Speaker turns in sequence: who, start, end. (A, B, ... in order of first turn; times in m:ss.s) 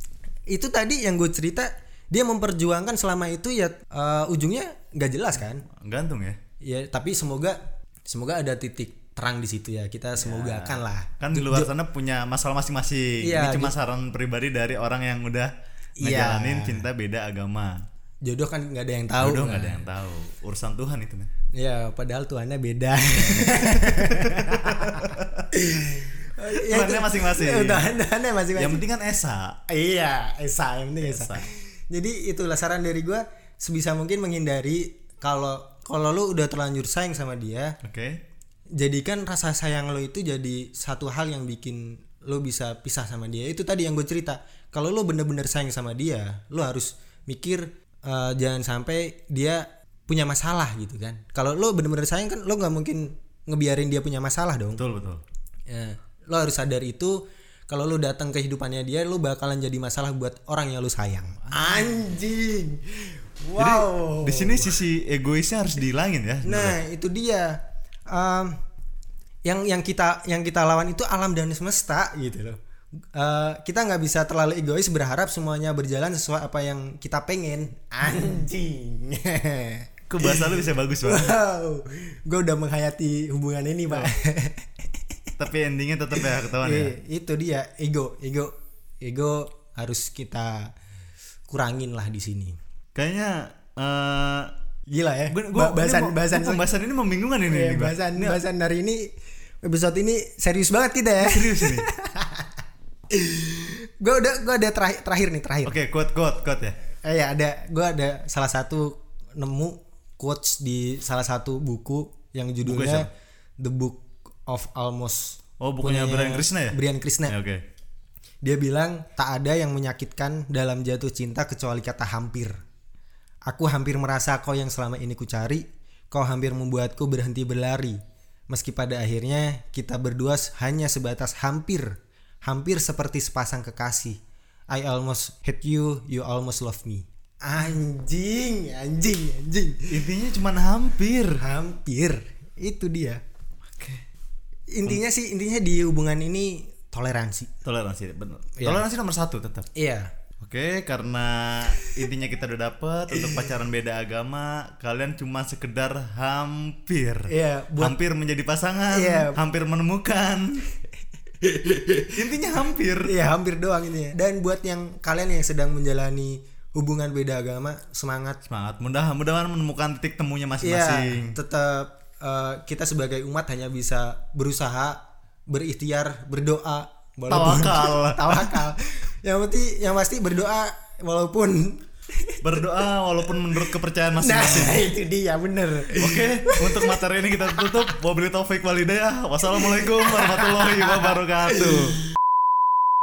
0:00.5-0:05.6 A
0:05.8-0:06.4 B
0:06.6-0:07.6 A
0:08.1-0:11.7 A
0:10.2-0:17.8 B
0:13.2-0:13.8 A
0:16.0-0:16.9 A
0:18.2-0:19.9 A
0:19.2-0:21.3 B
0:21.6-0:28.8 A
0:23.2-0:25.5 B
0:26.6-0:27.9 B
0:28.6-0:29.6 B
0:29.7-0:37.8 A
0:31.0-0:31.5 B
0:37.8-0:38.2 B
0:38.8-0:54.8 A
0:54.8-0:55.2 B
0:55.7-1:04.8 A
1:03.6-1:06.8 B
1:06.4-1:08.5 A
1:09.4-1:12.6 A
1:13.2-1:24.7 A
1:20.1-1:21.3 B
1:25.4-1:27.0 B
1:26.5-1:30.7 A
1:31.5-1:32.6 A
1:33.0-1:34.5 B
1:34.9-1:36.6 A
1:35.3-1:38.4 B
1:37.4-1:39.1 A
1:39.6-1:42.5 A
1:41.2-1:41.9 B
1:43.1-1:45.8 A
1:45.6-1:46.8 B
1:47.0-1:53.1 A
1:52.6-1:53.1 B
1:53.6-1:57.4 A
1:55.6-1:57.6 B
1:58.4-2:02.5 A
2:03.5-2:08.0 A
2:08.5-2:14.2 A
2:14.7-2:19.9 A
2:19.9-2:21.4 B
2:21.4-2:23.2 A
2:23.8-2:24.0 B
2:24.7-2:27.5 A
2:27.6-2:29.7 B
2:28.6-2:28.8 A
2:29.8-2:30.1 A
2:30.4-2:40.7 B
2:37.3-2:38.0 A
2:38.9-2:39.4 A
2:41.4-2:42.1 A
2:42.1-2:43.2 B
2:43.0-2:48.4 A
2:48.4-2:51.4 B
2:50.6-3:02.6 A
2:57.3-2:58.6 B
3:02.4-3:04.9 B
3:04.2-3:07.9 A
3:05.9-3:12.0 B
3:09.6-3:10.8 A